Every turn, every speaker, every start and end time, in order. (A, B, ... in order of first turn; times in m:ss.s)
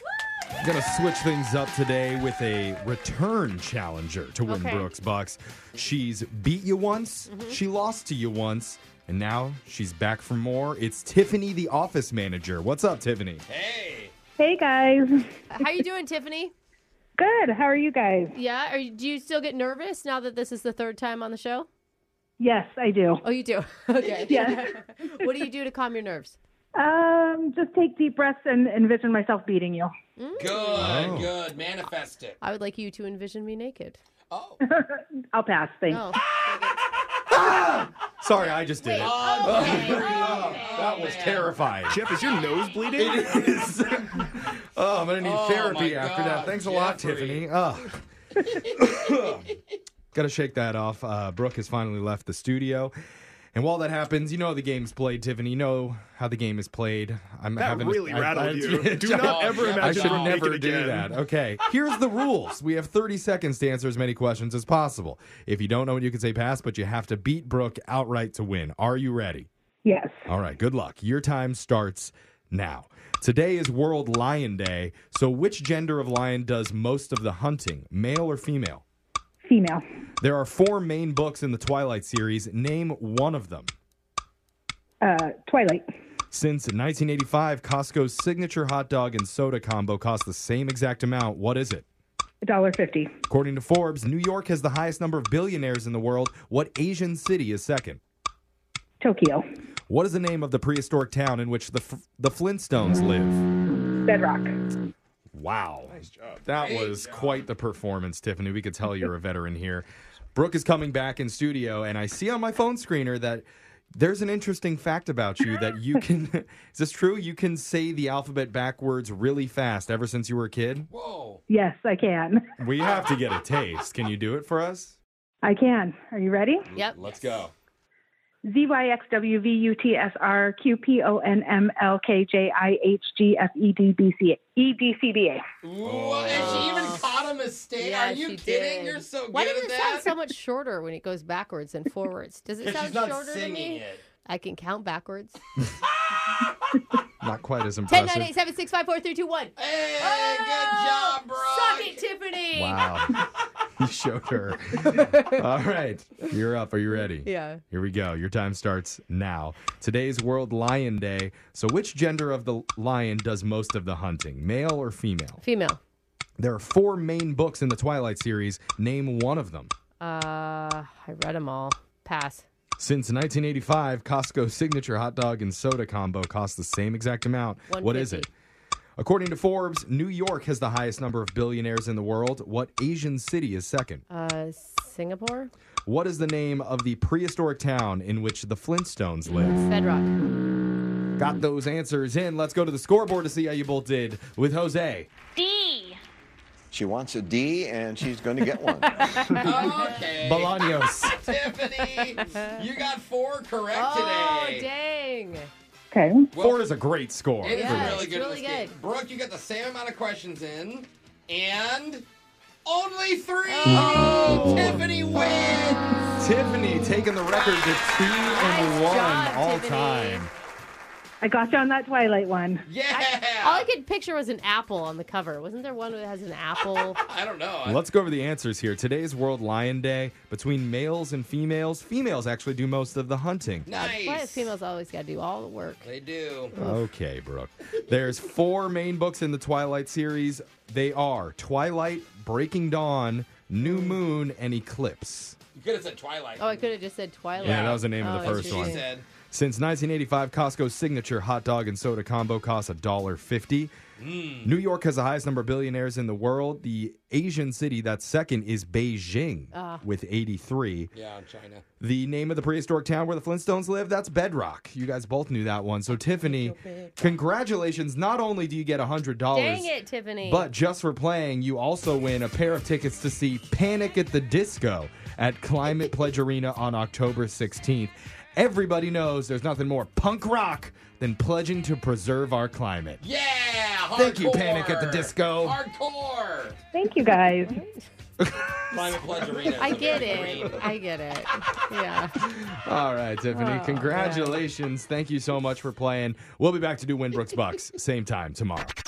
0:00.6-0:13.4 A
0:04.5-0:04.9 B
0:07.3-0:07.6 B
0:13.5-0:14.1 C
0:14.4-0:15.1 D
0:15.5-0:16.5 B
0:17.2-0:18.4 D
0:18.3-0:21.7 B
0:22.4-0:23.2 D
0:23.2-0:26.4 B
0:24.3-0:24.7 D
0:26.8-0:29.9 D
0:30.2-0:31.0 B
0:30.4-0:32.4 C
0:30.8-0:31.3 A
0:32.4-0:34.0 B
0:34.3-0:34.6 C
0:34.6-0:36.1 D
0:35.9-0:36.8 B
0:37.3-0:42.0 A
0:38.5-0:41.1 B
0:39.0-0:41.5 C
0:41.9-0:43.6 E
0:43.0-0:48.0 A
0:45.2-0:47.5 C
0:48.5-0:49.5 C
0:48.7-0:49.4 A
0:50.1-0:52.9 A
0:53.5-1:09.5 A
0:57.6-1:01.1 E
0:59.1-1:00.4 C
1:09.8-1:10.1 D
1:10.3-1:18.8 A
1:19.4-1:19.8 D
1:20.2-1:23.7 A
1:25.0-1:25.8 D
1:26.3-1:31.8 A
1:32.4-1:33.1 D
1:33.3-1:38.0 A
1:39.0-1:39.4 D
1:39.9-1:43.4 A
1:44.0-1:44.6 D
1:45.3-2:00.9 A
1:46.0-1:46.4 E
1:46.6-1:47.4 C
2:00.9-2:01.4 C
2:01.5-2:02.4 D
2:02.6-2:05.0 A
2:05.4-2:06.7 D
2:06.7-2:07.0 B
2:06.9-2:07.5 C
2:08.5-2:15.4 D
2:15.6-2:20.1 C
2:15.8-2:16.8 A
2:16.3-2:17.0 B
2:17.8-2:25.4 B
2:22.6-2:24.0 C
2:27.2-2:28.3 A
2:27.9-2:32.8 B
2:29.6-2:32.0 C
2:32.5-2:45.4 A
2:34.8-2:35.4 B
2:37.2-2:37.6 B
2:45.4-2:45.8 B
2:46.4-2:49.7 A
2:50.0-2:52.5 B
2:52.8-2:58.3 A
2:57.7-2:58.3 B
2:59.0-3:04.0 A
3:04.1-3:05.5 B
3:05.9-3:09.6 A
3:09.3-3:10.1 B
3:11.2-3:15.1 A
3:16.7-3:19.2 F
3:18.8-3:19.7 B
3:19.3-3:24.7 C
3:20.2-3:21.3 A
3:21.9-3:22.5 B
3:23.7-3:25.5 B
3:25.9-3:26.3 D
3:26.3-3:26.7 C
3:26.4-3:28.0 A
3:27.4-3:32.0 C
3:27.5-3:28.8 B
3:32.6-3:36.2 C
3:33.5-3:34.8 B
3:33.7-3:34.8 A
3:36.2-3:40.3 A
3:37.4-3:38.3 C
3:38.3-3:40.3 B
3:41.2-3:42.7 D
3:42.7-3:43.7 C
3:43.0-3:47.0 B
3:46.7-3:47.8 C
3:47.6-3:53.7 A
3:53.7-3:54.5 C
3:53.8-3:55.9 B
3:55.8-3:56.6 C
3:56.6-4:05.4 A
4:05.6-4:06.7 C
4:06.4-4:08.8 B
4:07.4-4:13.7 A
4:07.4-4:09.0 C
4:14.0-4:14.5 C
4:14.4-4:20.9 A
4:19.5-4:19.8 B
4:20.9-4:21.6 C
4:21.8-4:29.7 A
4:29.3-4:30.5 B
4:30.2-4:43.0 A
4:43.0-4:46.6 C
4:43.9-4:45.6 A
4:46.7-4:47.6 D
4:47.5-4:47.9 B
4:48.2-4:49.0 A
4:48.7-4:50.6 C
4:49.5-4:52.2 B
4:49.7-4:50.5 A
4:52.2-4:58.8 A
4:53.3-4:54.4 B